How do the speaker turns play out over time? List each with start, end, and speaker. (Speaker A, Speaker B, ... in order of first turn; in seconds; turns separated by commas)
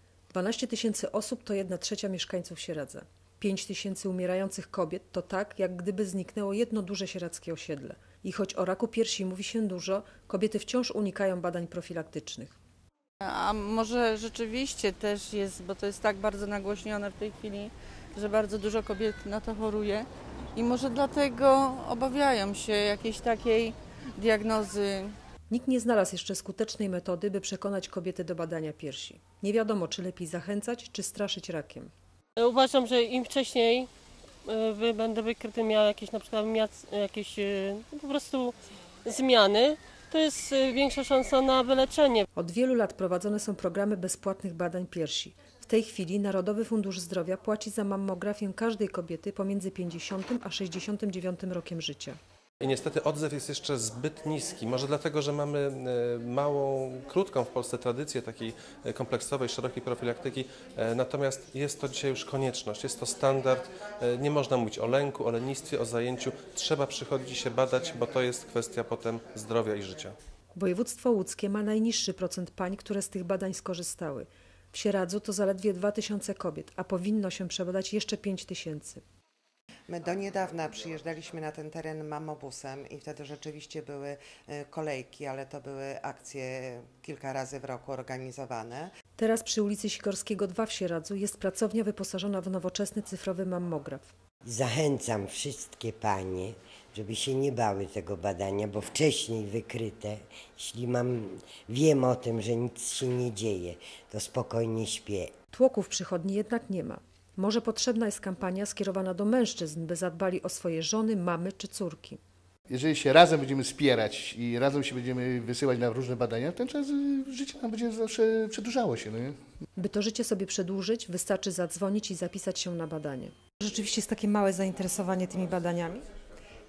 Speaker A: 0.3-12.6, Speaker B: 13.2-25.2, Speaker A: 25.5-31.9, Speaker C: 32.4-33.9, Speaker C: 34.5-42.2, Speaker A: 42.4-52.2, Speaker D: 52.6-70.2, Speaker A: 70.5-79.0, Speaker E: 79.9-88.9, Speaker A: 89.2-94.1, Speaker F: 94.4-105.3, Speaker A: 105.5-112.2, Speaker G: 112.7-119.4, Speaker A: 119.8-126.0